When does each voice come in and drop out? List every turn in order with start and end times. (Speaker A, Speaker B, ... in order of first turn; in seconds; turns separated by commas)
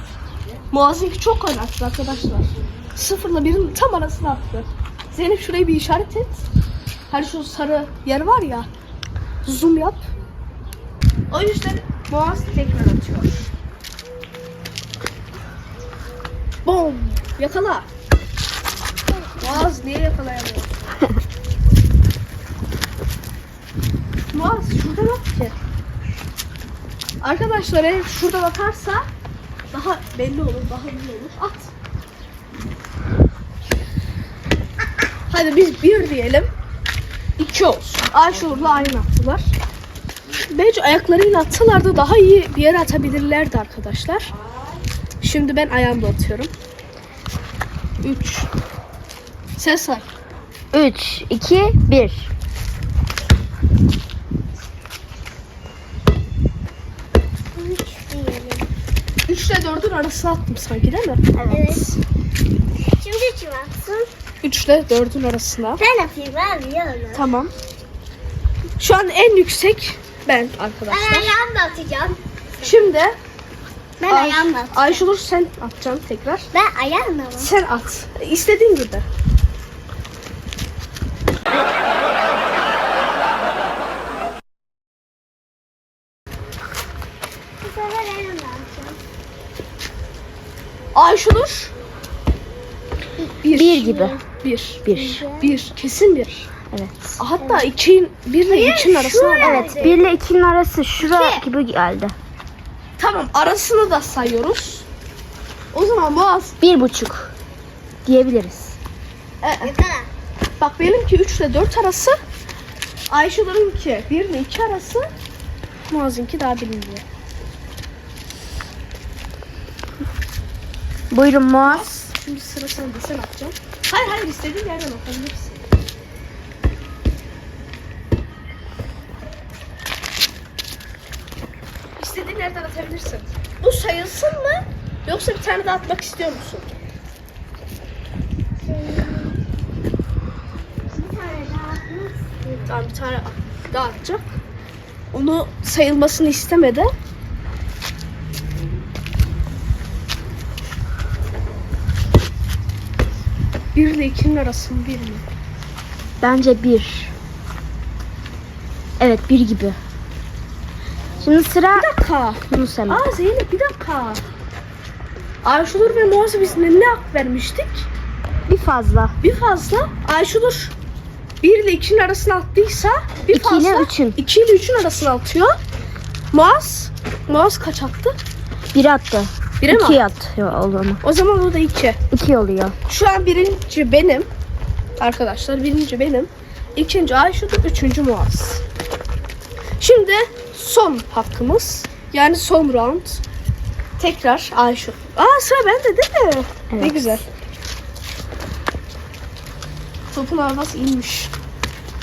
Speaker A: 0.7-6.4, Speaker A: 7.1-8.7, Speaker A: 9.4-10.1, Speaker A: 11.3-13.4, Speaker A: 16.6-17.9, Speaker B: 19.2-19.7, Speaker A: 19.4-21.2, Speaker A: 24.3-25.6, Speaker A: 27.2-29.0, Speaker A: 29.7-31.7, Speaker A: 35.3-36.5, Speaker A: 37.4-39.5, Speaker A: 40.5-44.3, Speaker A: 45.2-46.5, Speaker A: 48.0-48.5, Speaker A: 49.5-50.1, Speaker C: 50.7-52.3, Speaker B: 57.5-58.7, Speaker A: 59.2-61.3, Speaker C: 61.4-61.9, Speaker B: 61.4-61.9, Speaker B: 63.0-64.0, Speaker A: 64.4-65.8, Speaker B: 65.8-67.2, Speaker A: 67.1-67.5, Speaker A: 68.8-71.3, Speaker B: 70.9-72.8, Speaker A: 72.6-73.2, Speaker B: 74.0-75.0, Speaker A: 74.1-76.5, Speaker B: 76.5-77.5, Speaker A: 77.4-79.0, Speaker B: 87.6-89.0, Speaker A: 90.9-91.7, Speaker A: 93.4-96.5, Speaker C: 93.5-94.2, Speaker C: 94.8-95.2, Speaker B: 94.9-95.6, Speaker C: 96.7-97.2, Speaker A: 97.2-99.9, Speaker B: 98.5-100.0, Speaker C: 99.4-102.1, Speaker A: 101.0-101.4, Speaker A: 103.0-104.8, Speaker A: 105.7-106.6, Speaker C: 106.6-107.3, Speaker C: 108.0-108.8, Speaker A: 109.4-109.7, Speaker B: 109.6-110.1, Speaker A: 110.6-112.2, Speaker A: 113.1-115.1, Speaker A: 115.9-117.0, Speaker C: 121.1-121.9, Speaker A: 121.6-125.6, Speaker A: 132.0-136.7, Speaker B: 138.6-139.4, Speaker B: 140.9-142.7, Speaker A: 142.7-144.4, Speaker A: 145.1-146.9, Speaker A: 153.7-155.2, Speaker C: 156.2-157.1, Speaker C: 159.0-159.8, Speaker C: 161.2-161.9, Speaker A: 161.8-164.2, Speaker C: 162.5-163.1, Speaker A: 165.4-167.9, Speaker C: 168.5-169.2, Speaker A: 169.2-170.7, Speaker A: 171.4-175.5, Speaker C: 173.3-174.2, Speaker A: 176.3-178.2, Speaker C: 178.7-181.0, Speaker A: 179.6-180.0, Speaker A: 181.0-182.0, Speaker C: 182.1-182.7, Speaker A: 182.9-184.3, Speaker A: 185.0-188.6, Speaker A: 189.8-193.2, Speaker A: 194.0-197.2, Speaker C: 196.7-197.2, Speaker A: 200.1-201.3